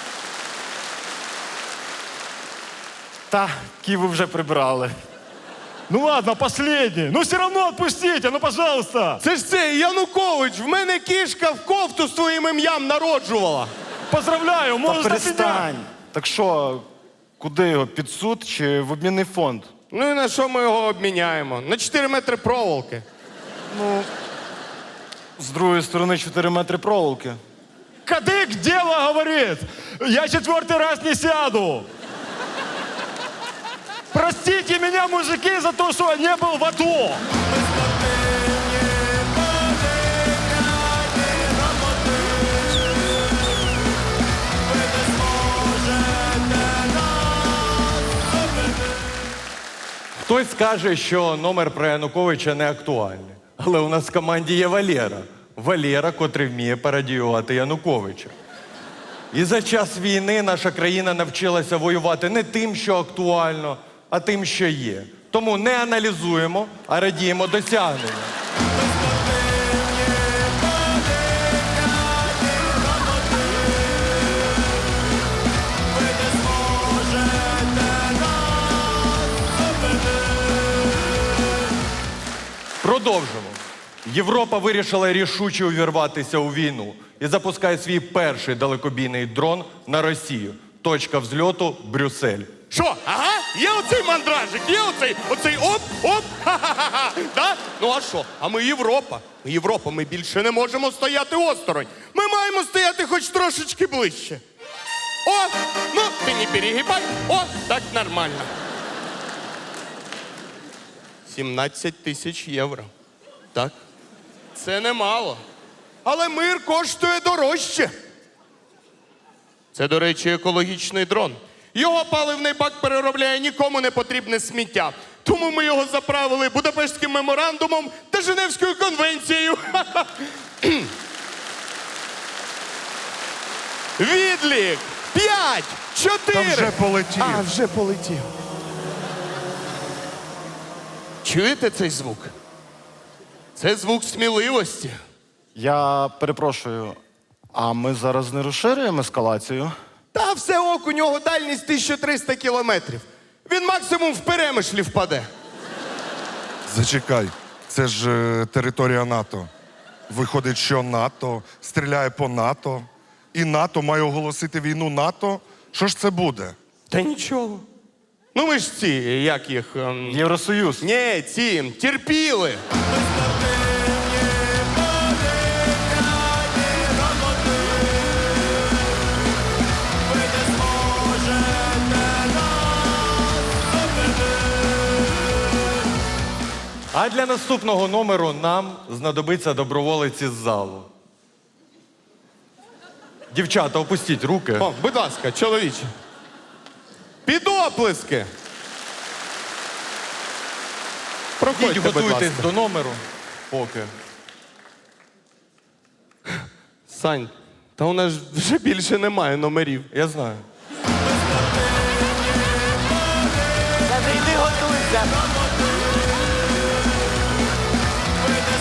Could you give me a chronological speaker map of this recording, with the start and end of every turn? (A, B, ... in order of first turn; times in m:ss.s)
0:03.3-0:04.9 A
0:05.9-0:09.2 B
0:09.2-0:13.7 C
0:14.1-0:15.7 B
0:14.8-0:16.9 A
0:17.4-0:19.7 A
0:19.9-0:23.0 C
0:23.7-0:24.1 A
0:25.4-0:27.4 A
0:28.0-0:31.9 B
0:34.1-0:37.2 B
0:50.2-0:58.3 D
0:59.3-1:08.3 D
1:22.8-1:32.6 D
1:32.7-1:44.4 C
1:45.2-1:48.5 C
1:51.3-1:52.9 C
1:54.6-1:55.4 C
1:56.0-1:57.9 C
1:59.7-2:10.9 C
2:14.0-2:18.3 C
2:16.3-2:17.5 E
2:21.2-2:22.3 C
2:23.6-2:25.0 C
2:25.5-2:27.0 A
2:27.5-2:29.7 A
2:30.1-2:35.3 C
2:36.7-2:39.5 E
2:40.1-2:46.6 E
2:46.9-2:47.6 C
2:48.3-2:50.2 C
2:50.1-2:50.9 A
2:50.8-2:52.6 C
3:06.9-3:10.9 D
3:13.3-3:14.7 D
3:14.6-3:15.9 C
3:17.2-3:18.3 C
3:21.4-3:22.5 C
3:21.5-3:23.9 D
3:26.3-3:29.9 C
3:29.9-3:30.4 D